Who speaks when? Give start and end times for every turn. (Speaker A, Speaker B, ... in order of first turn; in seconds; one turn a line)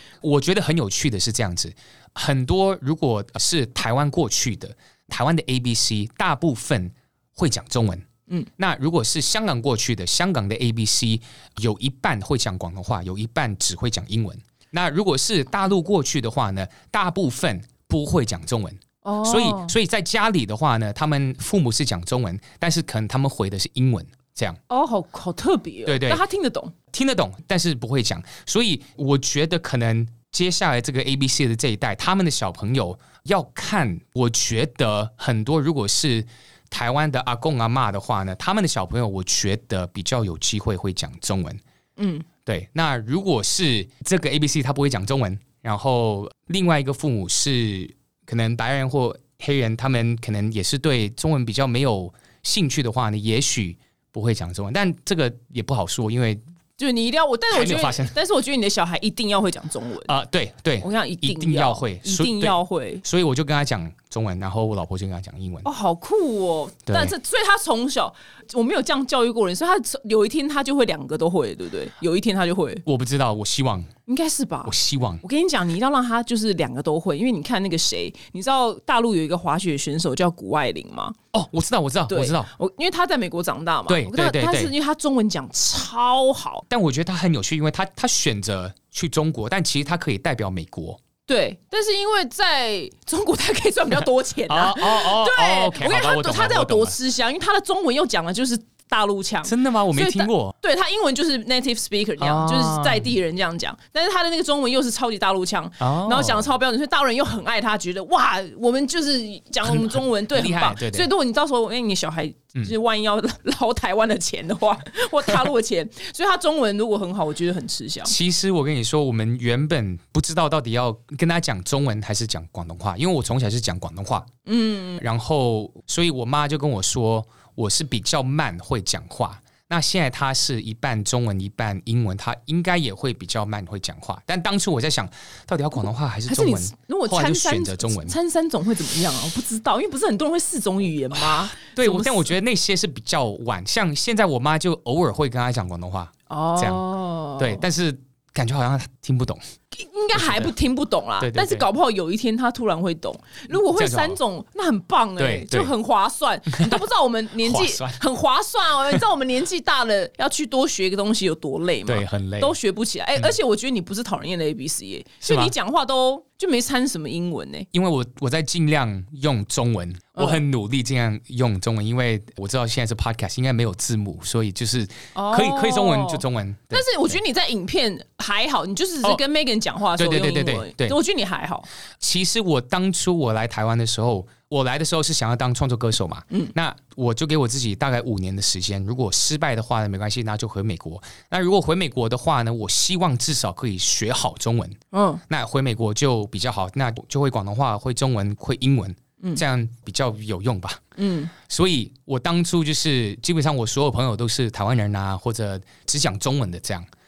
Speaker A: 0.2-8.1
Speaker A: 8.6-24.6
Speaker B: 19.0-19.7
Speaker B: 24.7-26.7
Speaker A: 25.9-26.2
Speaker A: 26.9-41.6
Speaker B: 42.0-42.3
Speaker A: 42.4-56.4
Speaker B: 56.8-60.1
Speaker A: 57.5-58.1
Speaker A: 60.0-65.7
Speaker B: 60.8-63.0
Speaker B: 65.6-72.8
Speaker A: 66.9-67.1
Speaker A: 72.8-73.9
Speaker B: 74.1-74.7
Speaker A: 74.6-75.2
Speaker B: 75.2-81.2
Speaker A: 81.3-82.5
Speaker B: 82.1-86.7
Speaker A: 83.9-84.7
Speaker A: 86.7-91.0
Speaker B: 91.3-118.1
Speaker A: 94.5-97.0
Speaker A: 99.4-100.5
Speaker A: 102.2-103.1
Speaker A: 105.8-106.5
Speaker A: 109.6-111.1
Speaker A: 118.0-124.3
Speaker B: 124.5-125.0
Speaker A: 125.0-138.2
Speaker B: 136.3-142.3
Speaker A: 141.1-146.8
Speaker B: 146.3-147.6
Speaker A: 147.4-149.4
Speaker B: 149.7-167.7
Speaker A: 150.1-150.5
Speaker A: 151.2-151.7
Speaker A: 153.7-154.2
Speaker A: 155.2-155.7
Speaker A: 156.5-156.8
Speaker A: 157.4-158.0
Speaker A: 161.8-162.5
Speaker A: 165.2-165.5
Speaker A: 167.7-177.2
Speaker B: 170.2-170.4
Speaker B: 175.1-181.7
Speaker A: 179.9-181.0
Speaker A: 182.0-200.8
Speaker B: 194.9-195.2
Speaker B: 201.0-201.3
Speaker A: 201.4-206.9